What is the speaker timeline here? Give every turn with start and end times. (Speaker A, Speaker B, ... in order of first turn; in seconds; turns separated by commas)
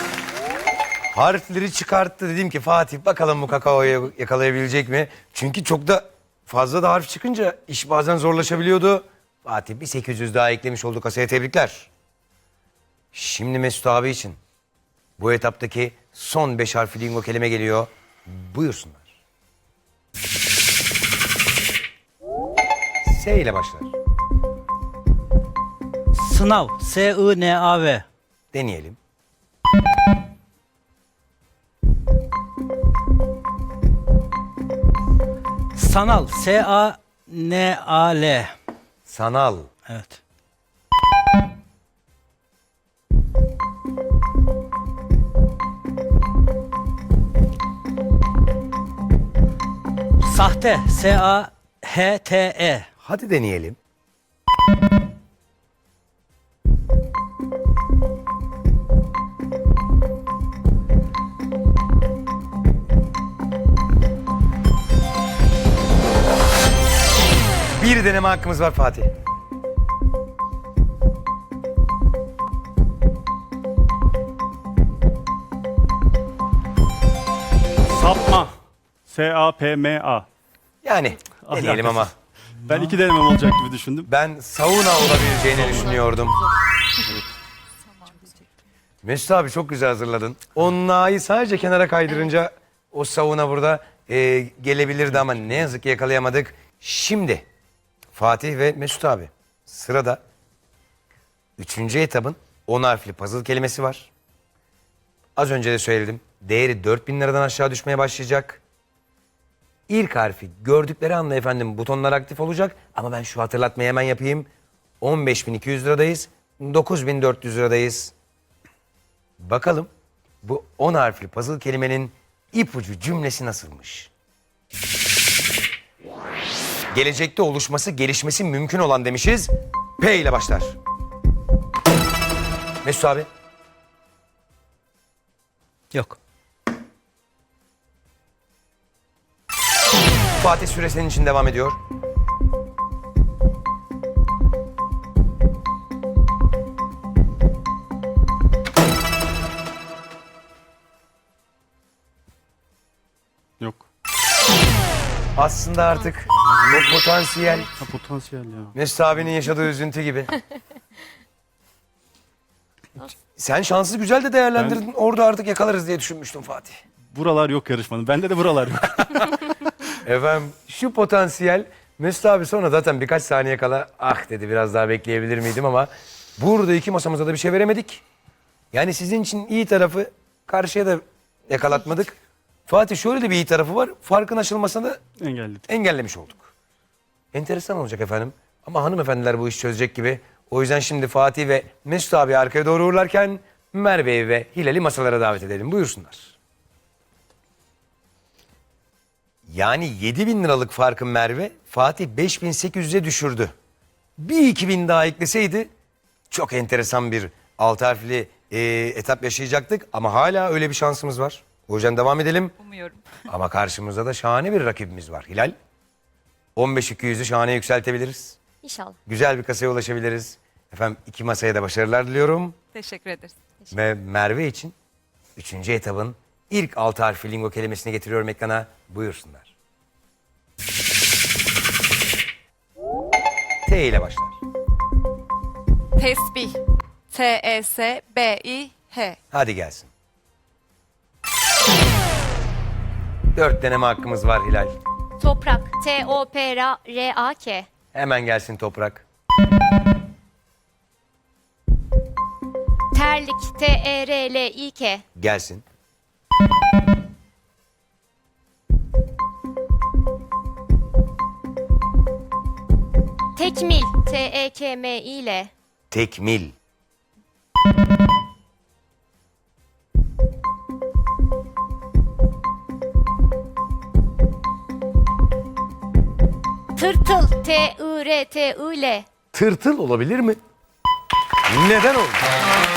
Speaker A: 1.1-11.9, Speaker A: 13.1-14.4, Speaker A: 15.2-19.1, Speaker A: 23.0-23.9, Speaker B: 26.1-28.0, Speaker A: 28.5-29.0, Speaker B: 35.8-38.5, Speaker A: 39.1-39.7, Speaker B: 39.9-40.2, Speaker B: 50.2-52.9, Speaker A: 53.0-53.8, Speaker A: 67.8-69.1, Speaker C: 77.9-80.3, Speaker A: 80.8-82.1, Speaker C: 81.4-82.1, Speaker C: 82.7-84.1, Speaker A: 84.1-86.4, Speaker D: 85.7-86.5, Speaker E: 88.0-88.4, Speaker A: 89.0-97.5, Speaker A: 98.2-100.2, Speaker A: 101.6-104.1, Speaker A: 105.4-108.6, Speaker A: 109.9-114.5, Speaker A: 115.0-118.1, Speaker A: 119.4-119.9, Speaker A: 120.4-124.1, Speaker A: 126.9-130.8, Speaker A: 132.8-133.3, Speaker B: 135.9-136.2, Speaker A: 140.4-141.8, Speaker C: 153.6-153.9, Speaker A: 155.4-157.7, Speaker C: 156.5-156.9, Speaker C: 157.8-159.3, Speaker A: 158.8-160.3, Speaker A: 163.4-166.8, Speaker C: 167.1-169.5, Speaker A: 170.0-178.0, Speaker A: 178.7-182.2, Speaker A: 182.7-185.0, Speaker C: 185.2-185.7, Speaker A: 185.7-186.5, Speaker A: 187.3-196.4, Speaker A: 199.5-203.5, Speaker A: 204.2-205.7, Speaker A: 206.3-212.5, Speaker E: 212.6-213.2, Speaker A: 213.3-215.6, Speaker A: 216.6-218.4, Speaker D: 218.6-219.0, Speaker A: 219.1-222.6, Speaker E: 222.7-223.4, Speaker A: 223.7-224.8, Speaker A: 225.4-229.5, Speaker A: 233.7-234.4, Speaker E: 236.0-239.2, Speaker A: 239.3-239.9, Speaker A: 243.3-244.8, Speaker D: 245.2-247.7, Speaker A: 247.9-249.0, Speaker D: 252.9-255.0, Speaker A: 255.2-255.6, Speaker D: 263.4-265.5, Speaker A: 265.9-266.5, Speaker D: 276.8-279.1, Speaker A: 279.3-280.4, Speaker A: 281.5-282.2